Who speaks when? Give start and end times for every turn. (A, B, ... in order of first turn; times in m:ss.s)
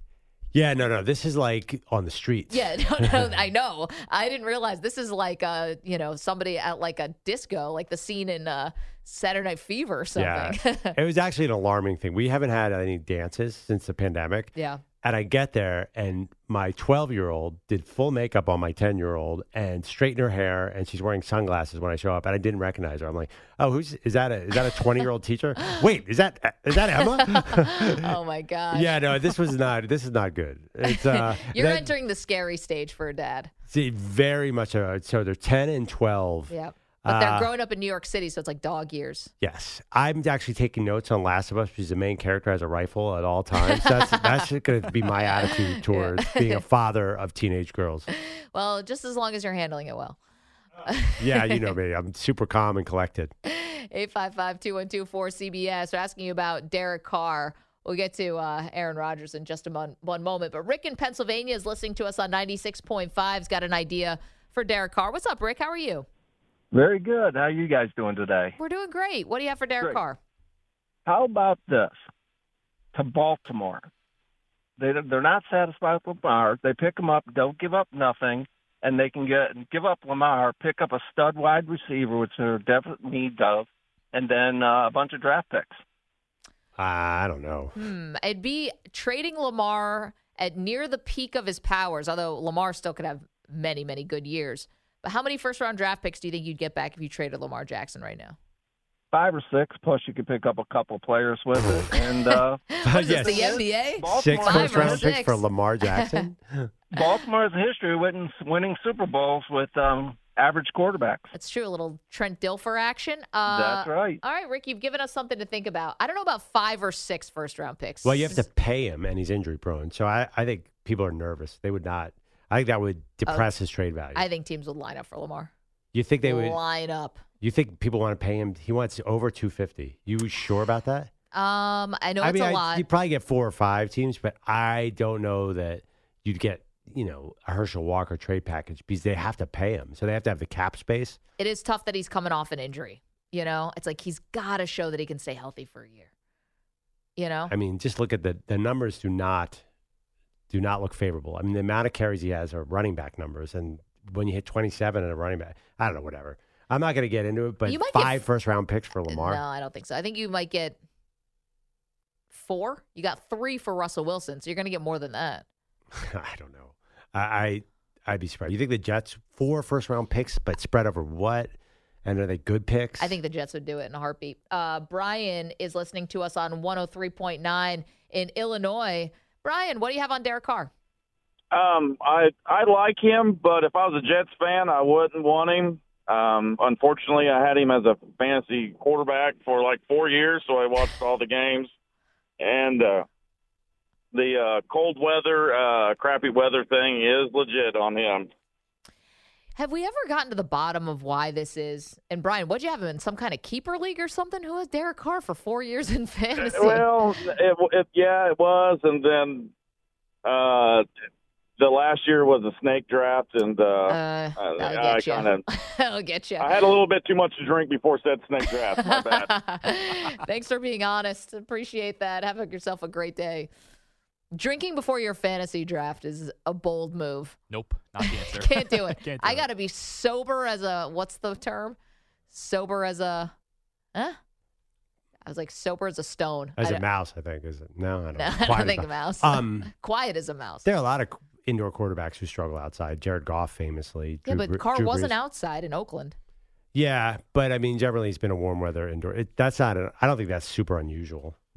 0:00.5-0:03.3 A
0:02.5-0:11.0 B
0:10.2-0:28.2 A
0:14.6-0:14.8 B
0:26.8-0:29.4 B
0:28.7-0:31.9 A
0:30.8-0:33.5 B
0:33.7-0:36.5 A
0:36.5-0:39.3 B
0:37.0-0:37.5 A
0:39.4-0:48.1 A
0:43.6-0:44.5 B
0:45.2-0:46.6 B
0:48.1-0:50.2 B
0:50.8-0:51.7 B
0:51.2-0:53.3 A
0:53.4-1:06.1 B
1:06.7-1:08.6 C
1:08.6-1:10.2 B
1:11.1-1:12.0 C
1:12.9-1:13.9 C
1:14.8-1:25.8 C
1:26.8-1:27.7 A
1:27.8-1:38.4 B
1:39.1-1:45.1 C
1:42.8-1:46.2 B
1:42.8-1:43.5 A
1:44.1-1:46.7 A
1:46.9-1:51.3 C
1:51.3-1:58.5 B
1:53.5-1:54.2 C
1:58.0-2:04.3 A
2:04.1-2:05.5 B
2:05.9-2:06.6 A
2:06.2-2:07.2 B
2:07.4-2:11.1 A
2:11.3-2:12.8 B
2:12.2-2:21.2 A
2:21.4-2:26.1 B
2:27.2-2:27.5 B
2:27.5-2:29.6 A
2:30.5-2:39.4 A
2:37.7-2:38.2 B
2:39.1-2:40.8 B
2:42.3-2:45.4 B
2:45.9-2:53.2 A
2:53.0-3:00.7 B
3:01.5-3:11.7 D
3:12.4-3:13.1 D
3:14.1-3:18.3 D
3:19.6-3:26.9 B
3:26.4-3:29.5 D
3:30.2-3:30.9 D
3:31.6-3:35.4 D
3:33.9-3:36.6 B
3:36.4-3:39.3 D
3:38.8-3:43.5 B
3:44.3-3:47.4 B
3:47.5-3:49.5 E
3:48.0-3:51.8 B
3:52.3-3:53.3 B
3:55.3-3:56.8 B
3:56.6-3:59.7 A
3:58.2-4:00.7 B
4:00.6-4:05.2 A
4:04.3-4:06.2 B
4:06.7-4:11.4 A